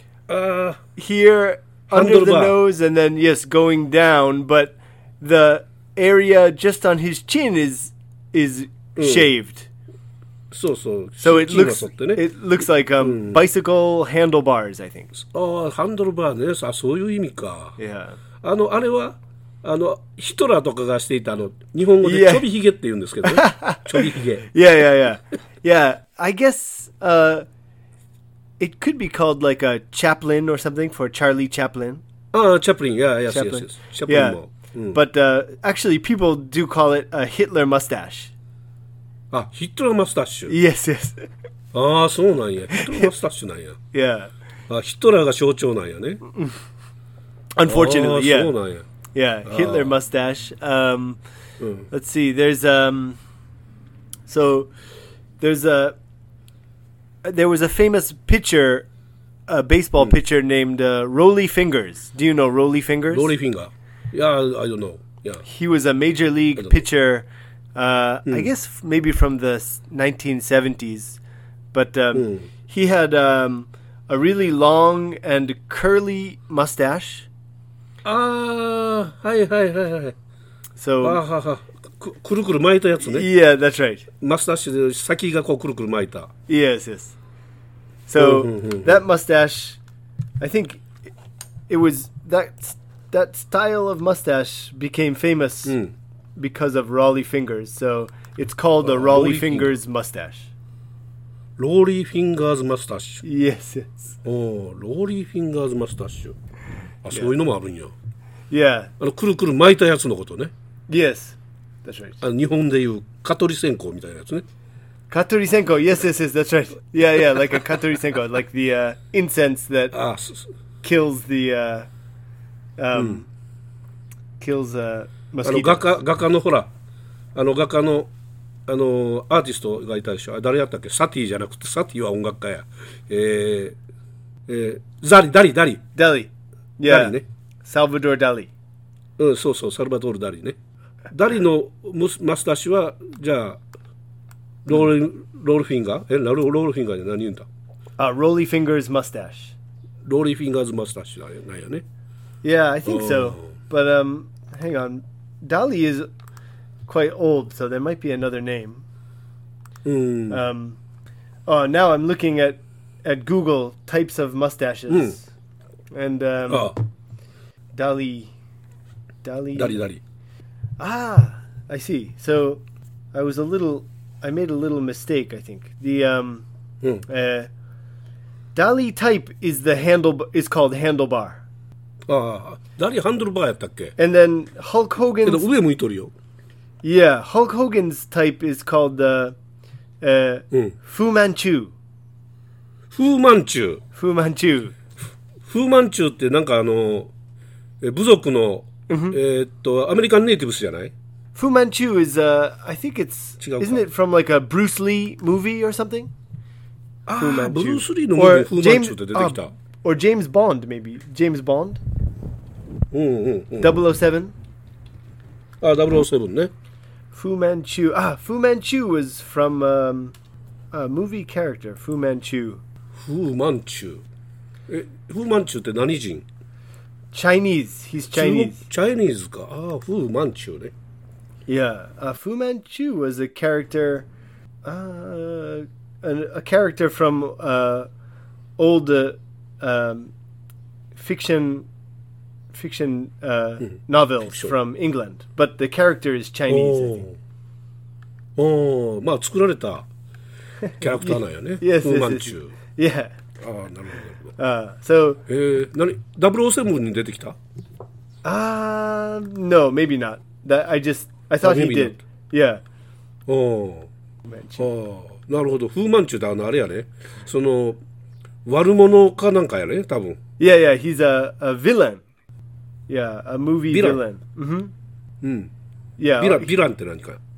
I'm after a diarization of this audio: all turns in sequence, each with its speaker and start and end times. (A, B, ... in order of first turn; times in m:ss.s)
0:00.3-0:00.8 A
0:00.9-0:09.7 B
0:01.9-0:02.6 A
0:09.0-0:09.3 A
0:10.5-0:12.2 A
0:11.2-0:15.1 B
0:13.0-0:13.4 A
0:15.1-0:17.8 A
0:17.8-0:18.2 B
0:18.4-0:24.5 A
0:22.0-0:22.5 B
0:23.2-0:27.4 B
0:28.6-0:32.0 B
0:32.3-0:35.0 A
0:33.3-0:34.4 B
0:34.9-0:38.3 B
0:39.3-0:40.5 A
0:40.5-0:41.3 B
0:41.7-0:43.8 A
0:42.7-0:43.1 B
0:43.9-0:44.3 B
0:44.7-0:46.2 A
0:47.5-0:48.5 B
0:47.6-0:48.8 A
0:49.1-0:51.2 B
0:49.4-0:49.9 A
0:51.6-0:51.9 A
0:51.9-0:53.2 B
0:54.3-0:54.7 B
0:55.4-0:56.0 B
0:57.2-0:58.9 B
0:59.5-1:03.3 B
1:03.1-1:05.4 A
1:05.4-1:11.2 B
1:06.6-1:06.8 A
1:11.7-1:17.3 B
1:12.1-1:12.5 A
1:18.0-1:20.2 A
1:20.8-1:21.2 B
1:21.0-1:23.3 A
1:23.0-1:24.1 B
1:24.2-1:26.3 A
1:26.5-1:27.1 B
1:28.1-1:29.8 B
1:28.2-1:29.0 A
1:30.4-1:30.9 B
1:31.7-1:35.8 B
1:35.6-1:35.9 A
1:36.4-1:40.5 B
1:38.8-1:39.8 A
1:41.6-1:43.2 A
1:43.2-1:44.1 B
1:44.2-1:46.4 A
1:47.0-1:47.9 A
1:48.5-1:48.9 B
1:49.0-1:50.5 A
1:50.9-1:52.2 B
1:52.2-1:54.4 A
1:55.1-1:59.9 B
1:59.9-2:00.5 A
2:00.8-2:01.9 B
2:02.8-2:03.3 B
2:02.9-2:03.2 A
2:04.4-2:05.9 B
2:05.4-2:06.7 A
2:07.3-2:08.1 A
2:08.7-2:13.8 A
2:14.5-2:15.8 A
2:15.9-2:18.5 B
2:16.8-2:17.2 A
2:19.2-2:20.6 A
2:21.1-2:23.6 A
2:24.6-2:27.5 A
2:28.0-2:29.5 B
2:30.0-2:31.8 A
2:32.4-2:36.1 B
2:32.8-2:33.5 A
2:36.8-2:38.8 B
2:39.8-2:40.4 A
2:40.3-2:40.8 B
2:41.4-2:45.2 B
2:44.9-2:45.2 A
2:45.9-2:46.7 B
2:46.5-2:46.8 A
2:47.7-2:48.3 B
2:49.2-2:49.8 B
2:49.5-2:50.0 A
2:50.8-2:52.6 B
2:53.1-2:56.4 B
2:57.1-2:57.5 B
2:58.5-3:01.4 B
3:02.1-3:03.9 A
3:04.0-3:05.4 B
3:05.2-3:06.1 A
3:06.8-3:09.4 B
3:10.0-3:11.7 B
3:12.9-3:13.8 A
3:13.9-3:14.7 B
3:15.4-3:17.1 A
3:17.8-3:20.9 A
3:18.9-3:19.2 B
3:21.3-3:26.1 B
3:23.4-3:23.8 A
3:27.0-3:29.5 A
3:27.2-3:31.8 B
3:32.9-3:33.8 A
3:33.6-3:34.3 B
3:35.6-3:36.5 A
3:37.1-3:40.1 B
3:40.7-3:42.6 B
3:43.0-3:44.0 A
3:44.7-3:46.2 A
3:47.1-3:48.6 B
3:48.1-3:50.7 A
3:51.5-3:54.1 B
3:54.6-3:57.9 B
3:58.6-4:00.1 B
4:00.9-4:01.7 B
4:02.5-4:07.0 B
4:04.2-4:04.5 A
4:06.5-4:07.2 A
4:08.4-4:09.9 A
4:10.6-4:13.1 B
4:10.8-4:12.5 A
4:13.4-4:14.3 A
4:14.4-4:15.2 B
4:15.3-4:17.4 A
4:18.2-4:22.6 B
4:21.4-4:22.0 A
4:23.3-4:23.9 A
4:24.3-4:24.7 B
4:24.6-4:27.8 A
4:28.4-4:30.2 A
4:30.4-4:32.0 B
4:32.9-4:34.7 B
4:33.7-4:34.0 A
4:35.2-4:35.5 A
4:36.0-4:36.5 B
4:36.2-4:37.2 A